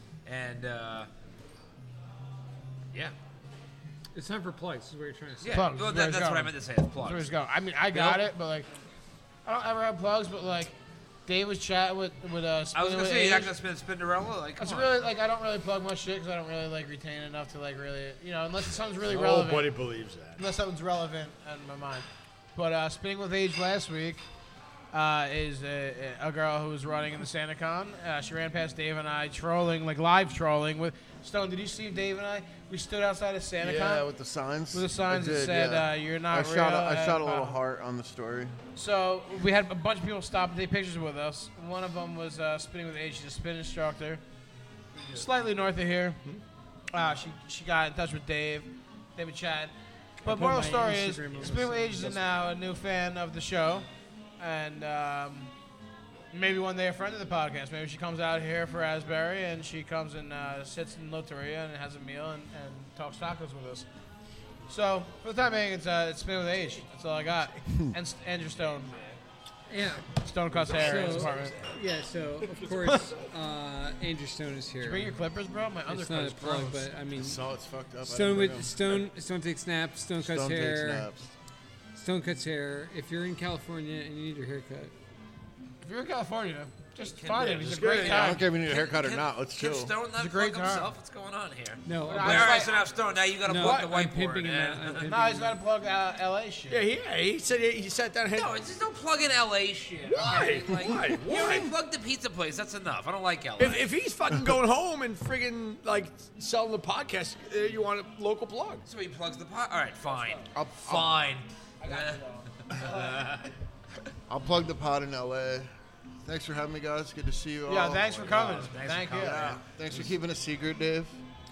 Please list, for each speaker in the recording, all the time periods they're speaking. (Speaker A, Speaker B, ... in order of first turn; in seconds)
Speaker A: 0.2-1.1, 5.4-7.3, 7.9-8.2, 12.7-14.9, 87.0-95.1, 98.3-103.8, 108.9-113.5, 118.3-119.6
Speaker B: 4.1-5.7, 50.2-52.2, 69.7-70.1, 70.7-75.1, 75.9-77.4, 78.0-81.1, 81.9-84.9, 91.8-92.7, 93.4-95.6
Speaker C: 5.5-8.7, 9.4-10.7, 11.2-13.5, 14.6-24.2, 24.9-34.0, 34.7-37.6, 38.7-44.2, 45.1-46.2, 46.9-53.9, 54.4-55.5, 56.3-63.9, 64.7-69.0, 70.2-71.5, 74.8-76.9, 85.8-88.4, 90.2-90.9, 92.0-92.8, 95.0-96.8, 110.0-110.4, 111.8-113.5, 117.7-119.4
Speaker D: 19.1-20.4, 70.5-71.7, 72.4-73.3, 87.5-88.3, 96.7-98.5, 100.0-101.7, 103.6-108.8
Speaker E: 33.6-38.6, 67.7-67.9, 77.2-79.1, 80.2-81.3, 88.0-89.9, 110.5-111.1, 114.3-115.7, 116.2-118.6, 119.1-121.2